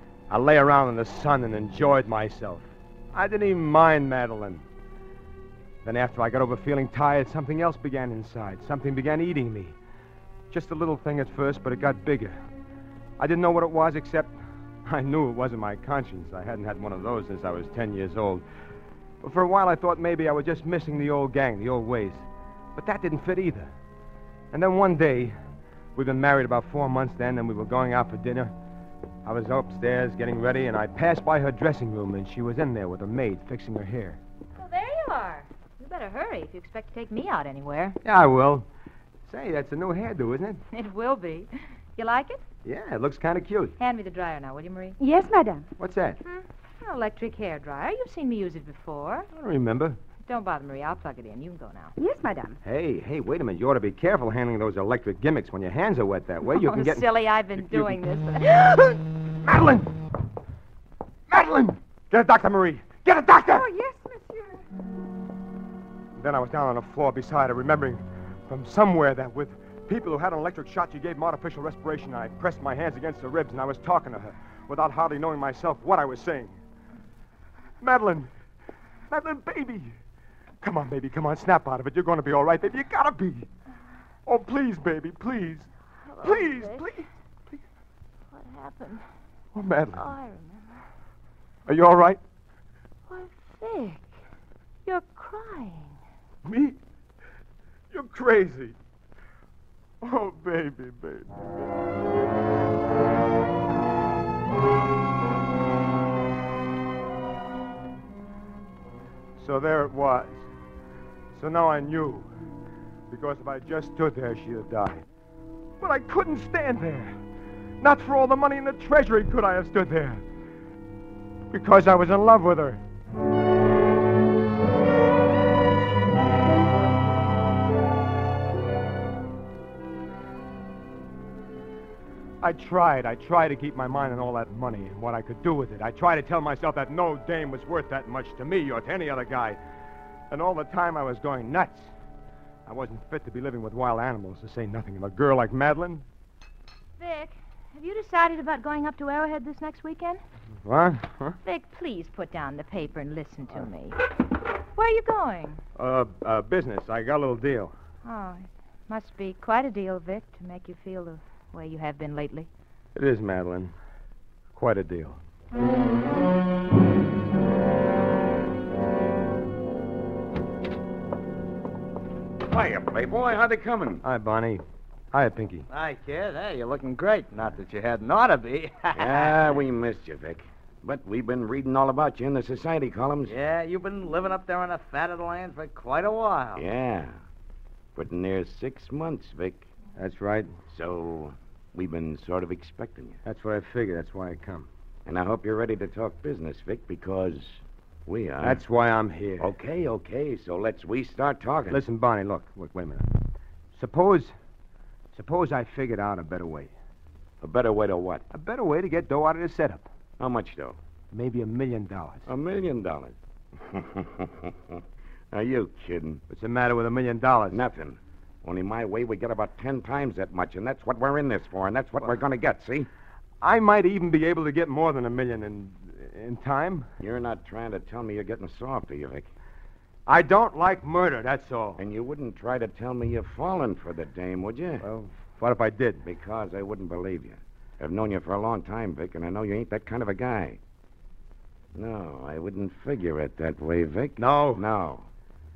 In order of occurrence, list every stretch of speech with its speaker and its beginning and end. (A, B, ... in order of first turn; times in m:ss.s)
0:00.3-0:04.6 A
0:05.8-0:09.8 A
0:10.5-0:12.4 A
0:13.2-0:18.4 A
0:19.2-0:22.2 A
0:22.7-0:23.7 A
0:24.5-0:25.3 A
0:25.9-0:28.5 A
0:29.2-0:34.2 A
0:34.6-0:38.0 B
0:38.0-0:38.7 A
0:39.3-0:40.6 A
0:40.7-0:42.4 B
0:42.6-0:43.8 A
0:43.8-0:45.0 B
0:45.0-0:45.7 C
0:45.8-0:46.2 A
0:46.2-0:49.3 B
0:49.3-0:50.0 A
0:50.2-0:51.9 B
0:52.0-0:52.6 C
0:52.6-1:00.0 A
0:56.4-0:58.6 B
1:01.3-1:03.7 A
1:03.5-1:04.6 C
1:06.1-1:16.6 A
1:17.8-1:18.3 A
1:19.1-1:19.9 A
1:20.6-1:23.5 A
1:24.2-1:25.7 A
1:26.0-1:27.0 B
1:26.2-1:27.6 A
1:28.3-1:29.0 B
1:29.5-1:30.1 A
1:29.9-1:30.8 B
1:31.7-1:32.2 A
1:33.1-1:34.1 B
1:34.8-1:36.0 B
1:36.4-1:36.8 A
1:37.9-1:38.7 A
1:40.0-1:41.4 A
1:49.4-1:50.4 A
1:51.3-1:52.3 A
1:53.1-1:55.0 A
1:55.8-1:57.2 A
1:57.8-2:00.2 A
2:01.5-2:02.8 A
2:12.4-2:19.6 A
2:20.3-2:21.9 A
2:22.6-2:26.0 A
2:27.0-2:30.2 B
2:30.6-2:31.4 A
2:31.4-2:34.0 B
2:34.7-2:35.6 B
2:35.8-2:37.7 A
2:38.0-2:42.5 B
2:42.9-2:43.7 A
2:44.5-2:45.2 A
2:52.4-2:54.0 D
2:54.0-2:55.7 A
2:55.7-2:59.6 E
2:58.9-3:03.3 D
3:03.3-3:06.6 E
3:06.5-3:07.1 D
3:08.0-3:09.7 D
3:10.0-3:10.5 A
3:10.7-3:13.2 D
3:13.2-3:14.7 A
3:15.0-3:18.6 D
3:18.4-3:19.5 A
3:19.4-3:21.8 D
3:21.7-3:23.1 A
3:23.7-3:24.3 A
3:25.1-3:26.7 A
3:27.4-3:28.2 D
3:28.3-3:29.9 A
3:30.2-3:30.8 D
3:31.1-3:32.3 A
3:32.3-3:34.8 D
3:35.3-3:36.2 D
3:36.3-3:37.6 A
3:37.5-3:42.9 D
3:43.4-3:46.9 A
3:47.0-3:49.3 D
3:50.1-3:51.8 A
3:51.8-3:54.8 D
3:54.8-3:56.0 A
3:56.0-4:00.6 D
4:01.7-4:05.1 D
4:04.2-4:04.6 A